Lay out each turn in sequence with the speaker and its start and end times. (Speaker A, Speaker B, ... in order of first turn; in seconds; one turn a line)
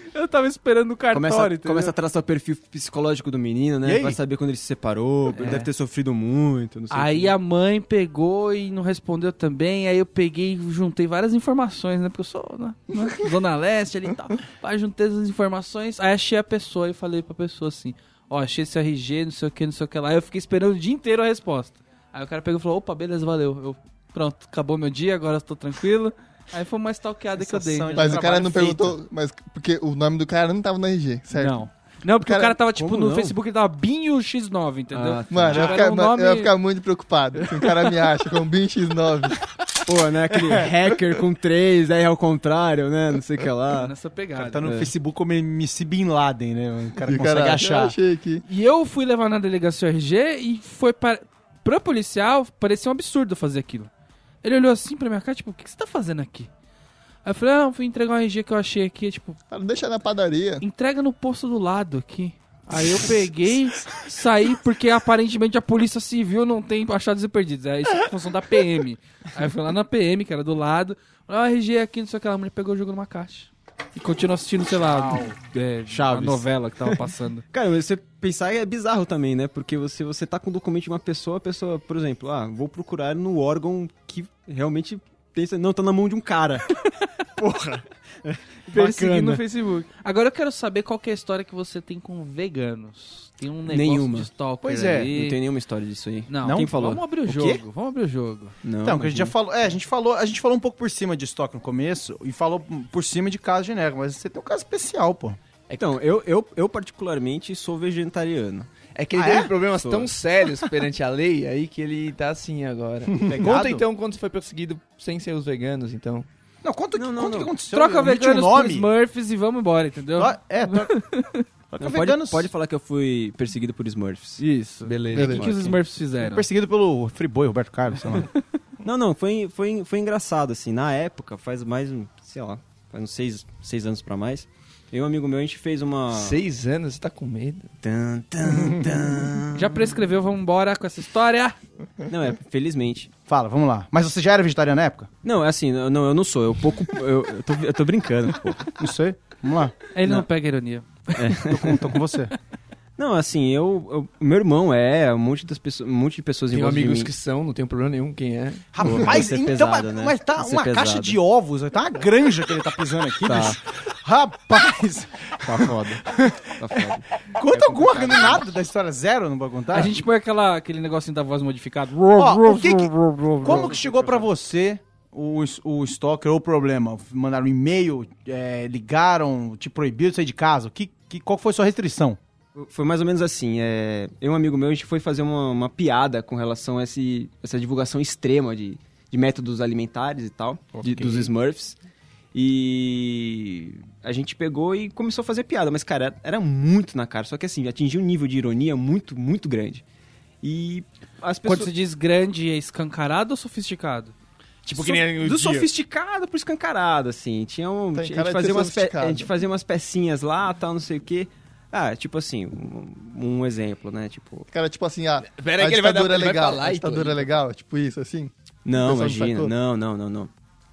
Speaker A: 0.1-1.9
Speaker B: 1.1-7.3
Speaker C: 3.8-4.2
Speaker A: 5.3-5.7
Speaker A: 6.9-28.6
Speaker C: 27.4-28.9
Speaker D: 27.9-31.6
Speaker A: 31.3-36.5
Speaker D: 32.2-32.6
Speaker B: 32.8-33.4
Speaker B: 34.9-35.8
Speaker D: 35.3-39.4
Speaker B: 39.9-43.9
Speaker A: 43.8-44.7
Speaker C: 44.4-48.0
Speaker B: 44.6-44.9
Speaker D: 47.0-48.5
Speaker A: 48.5-53.9
Speaker A: 54.4-56.5
Speaker A: 57.2-59.4
Speaker D: 59.5-60.6
Speaker A: 60.6-77.4
Speaker C: 74.8-75.4
Speaker B: 75.9-77.0
Speaker B: 77.5-86.7
Speaker B: 87.4-89.4
Speaker A: 88.7-95.4
Speaker B: 93.7-94.3
Speaker C: 94.6-95.1
Speaker B: 95.1-97.0
Speaker A: 96.3-98.5
Speaker C: 96.4-97.6
Speaker B: 98.6-99.3
Speaker C: 98.8-105.4
Speaker B: 105.8-108.7
Speaker E: 109.0-116.3
Speaker C: 109.2-109.5
Speaker B: 109.8-110.1
Speaker C: 113.2-113.8
Speaker C: 116.6-118.9
Speaker B: 117.0-117.5
Speaker A: 117.7-121.5
Speaker C: 120.2-120.9
Speaker C: 121.7-122.5
Speaker B: 121.8-124.4
Speaker A: 124.4-126.5
Speaker E: 124.8-125.4
Speaker D: 125.1-125.4
Speaker B: 125.2-125.8
Speaker C: 126.2-128.3
Speaker B: 128.8-136.4
Speaker E: 136.1-137.7
Speaker B: 137.8-139.9
Speaker A: 139.5-141.6
Speaker B: 142.1-143.1
Speaker C: 143.3-145.1
Speaker B: 145.2-148.7
Speaker C: 148.8-149.8
Speaker A: 149.9-151.7
Speaker B: 151.2-151.8
Speaker C: 151.5-152.3
Speaker B: 153.0-157.1
Speaker E: 156.5-158.6
Speaker C: 158.7-166.6
Speaker B: 158.8-161.2
Speaker B: 163.2-163.6
Speaker B: 165.4-166.0
Speaker B: 166.6-168.4
Speaker C: 167.3-170.0
Speaker A: 169.7-173.7
Speaker C: 172.2-182.2
Speaker B: 173.4-174.3
Speaker B: 182.6-191.8
Speaker C: 190.8-191.3
Speaker B: 192.3-199.8
Speaker B: 200.4-201.7
Speaker A: 201.4-204.1
Speaker E: 204.7-205.7
Speaker B: 204.7-214.5
Speaker D: 207.9-209.3
Speaker D: 214.5-219.5
Speaker E: 215.2-217.2
Speaker B: 218.7-220.3